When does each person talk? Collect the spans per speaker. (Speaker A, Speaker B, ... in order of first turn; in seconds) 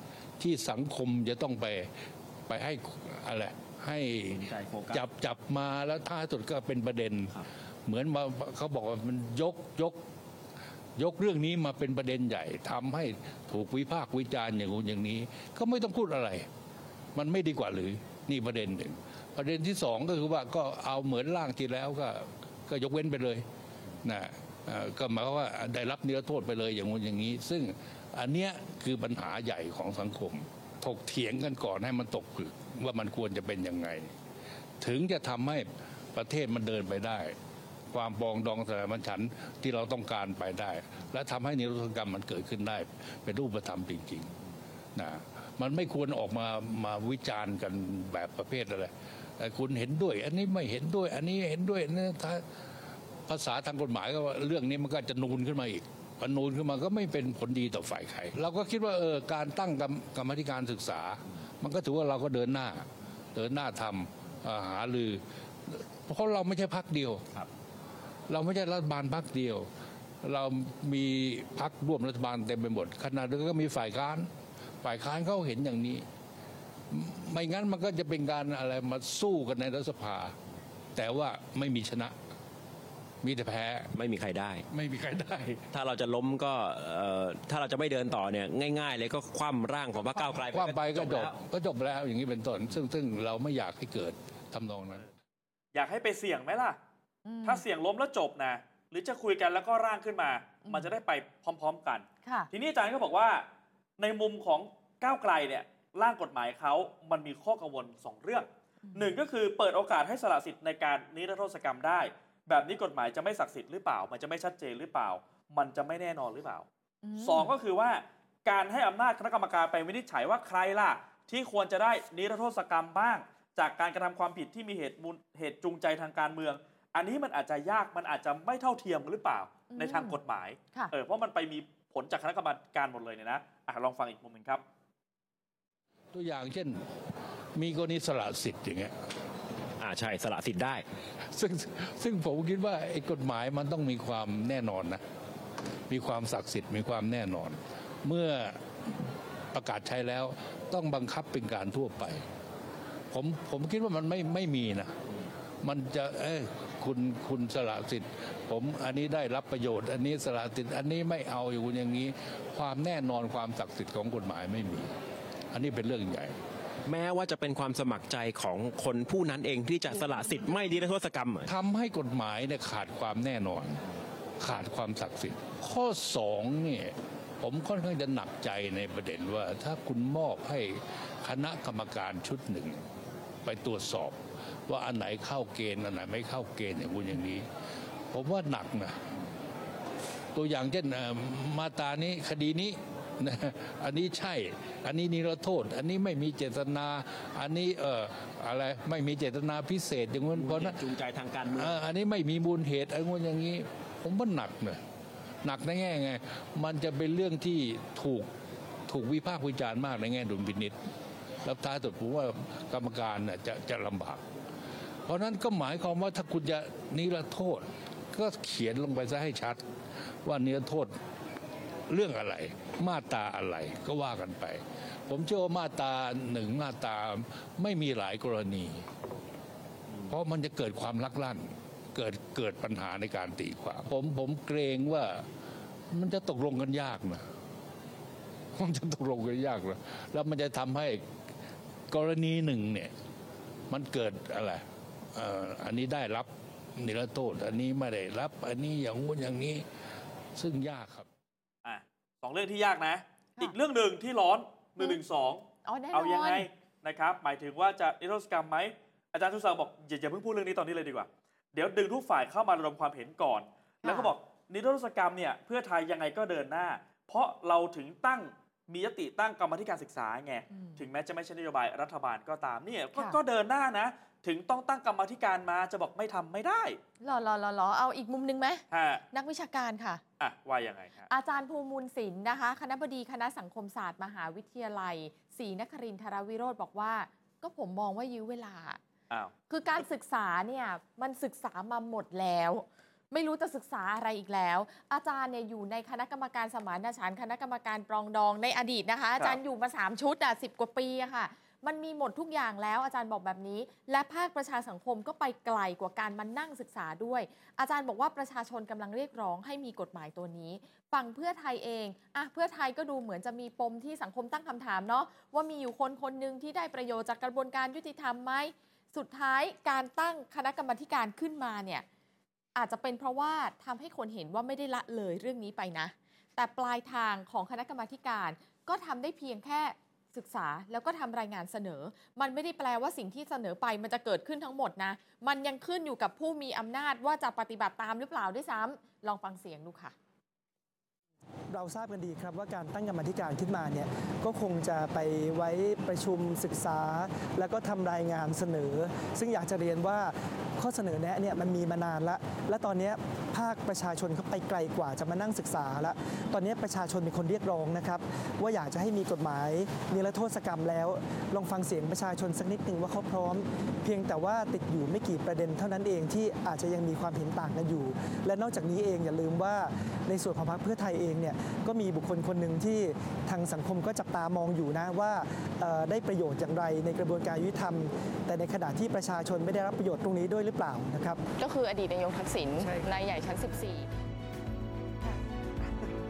Speaker A: 0.4-1.9, 2.5-7.3, 7.9-10.0, 11.0-16.5, 17.1-23.4, 24.0-34.1, 34.8-37.4, 37.9-44.4, 45.0-52.5, 53.3-67.3, 68.3-69.7, 70.2-74.3, 74.8-76.1, 76.9-80.4, 81.0-82.2, 83.2-83.9, 84.7-85.7, 90.2-95.1, 136.1-136.9, 137.6-138.9, 141.3-145.0, 145.9-152.2, 153.1-155.0, 155.6-164.9, 165.5-166.4, 171.5-173.8, 174.4-182.8, 183.4-187.5, 188.1-189.0, 190.3-200.9, 201.5-204.8, 205.4-208.3, 208.9-210.8, 211.4-214.2, 215.1-219.6, 220.2-221.0, 221.9-228.9, 230.1-235.3, 235.9-237.3, 238.6-241.1, 241.9-242.9, 243.7-249.7, 250.4-251.1
Speaker B: 4.3-5.0, 83.9-84.7, 85.7-91.4, 139.8-140.8, 166.8-171.5, 200.3-201.8
Speaker C: 95.7-96.8, 97.4-116.7, 117.2-134.6, 251.6-276.8, 278.7-279.0, 280.2-281.1
Speaker D: 97.2-97.6, 100.7-100.9, 102.2-102.5, 108.8-109.2, 117.0-117.5, 129.7-130.2, 255.7-256.5, 263.8-264.1, 270.5-270.8, 277.0-280.0, 281.1-288.8, 289.5-321.9, 322.6-339.9, 381.4-383.9
Speaker E: 341.5-381.2, 382.6-382.9